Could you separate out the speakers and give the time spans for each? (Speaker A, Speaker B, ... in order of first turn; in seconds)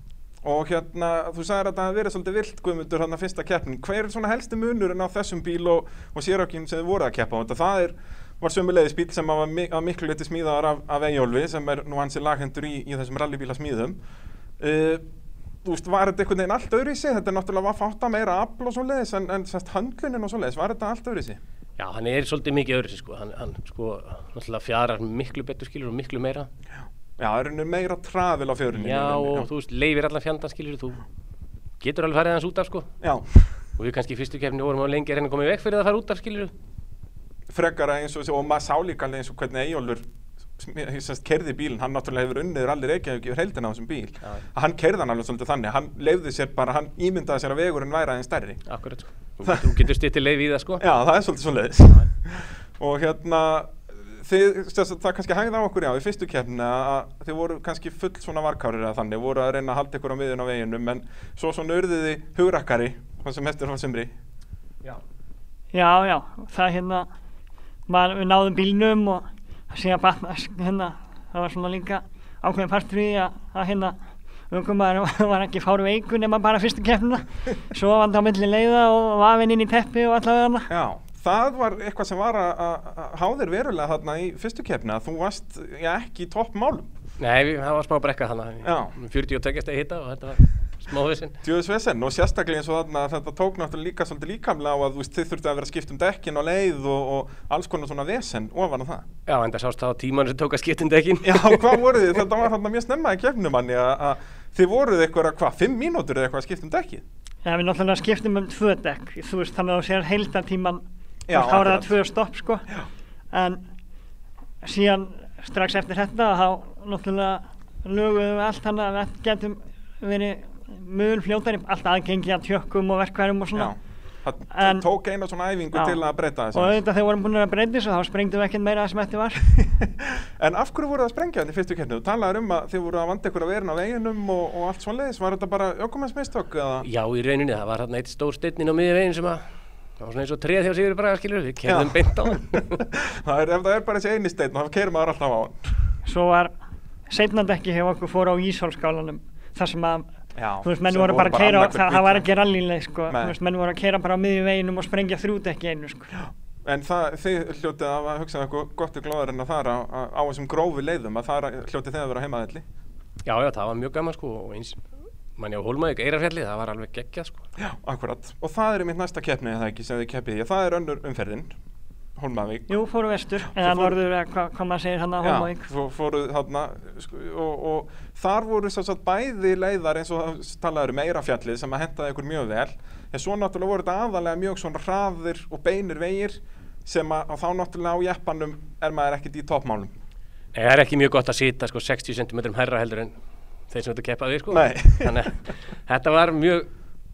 Speaker A: 0.4-14.0, 14.6-15.0, 15.6-21.4, 27.2-29.5, 33.0-33.5, 37.5-40.0, 40.6-48.7, 49.4-49.7, 50.8-64.1, 80.7-86.8, 88.6-88.9, 91.4-99.0, 101.2-107.0, 111.3-111.9, 123.5-126.8, 130.4-136.8, 141.6-145.6, 150.3-152.2, 153.1-153.3, 156.1-162.6, 167.6-171.5, 172.2-172.7, 173.5-173.9, 175.2-189.9, 194.5-195.2
Speaker B: 21.8-26.5, 28.7-31.0, 31.8-32.9, 33.8-36.5, 48.7-50.8, 87.2-91.3, 99.3-102.0, 136.8-139.4, 140.0-142.8, 163.2-164.8, 165.3-167.4, 190.5-193.2, 193.7-196.7
Speaker C: 65.7-67.1, 67.9-74.0, 74.5-80.7, 107.4-112.7, 113.3-113.6, 114.6-123.7, 124.5-124.8, 125.7-126.0, 126.5-129.4, 146.1-146.5, 147.1-150.1, 150.6-156.1, 172.7-175.6